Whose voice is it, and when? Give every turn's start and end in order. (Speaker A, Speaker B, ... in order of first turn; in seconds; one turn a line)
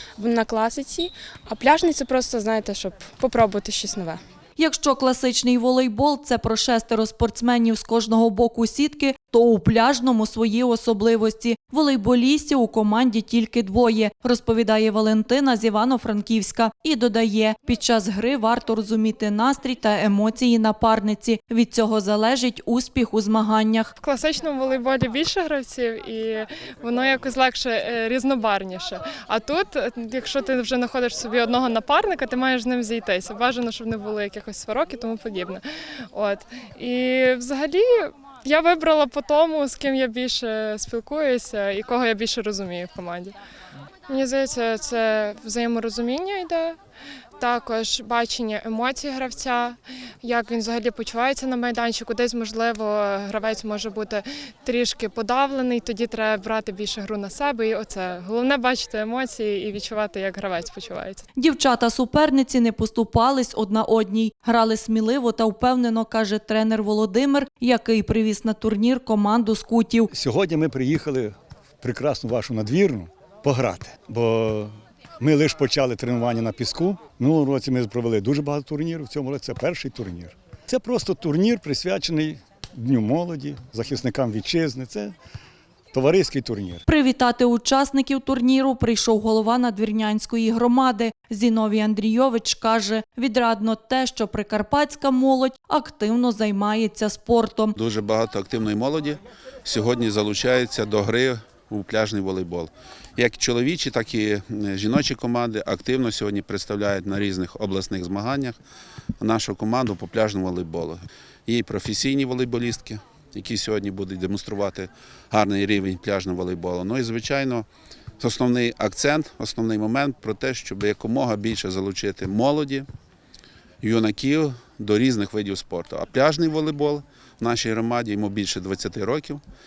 Speaker A: 0.2-4.2
Speaker B: 4.6-23.9
Speaker C: 24.0-43.3
Speaker C: 44.1-46.8
Speaker C: 47.4-61.2
Speaker B: 61.4-70.1
Speaker D: 70.1-85.1
Speaker D: 85.9-86.8
Speaker B: 86.8-97.7
Speaker E: 97.8-108.5
Speaker E: 109.2-117.7
Speaker E: 118.2-122.8
Speaker E: 123.8-129.4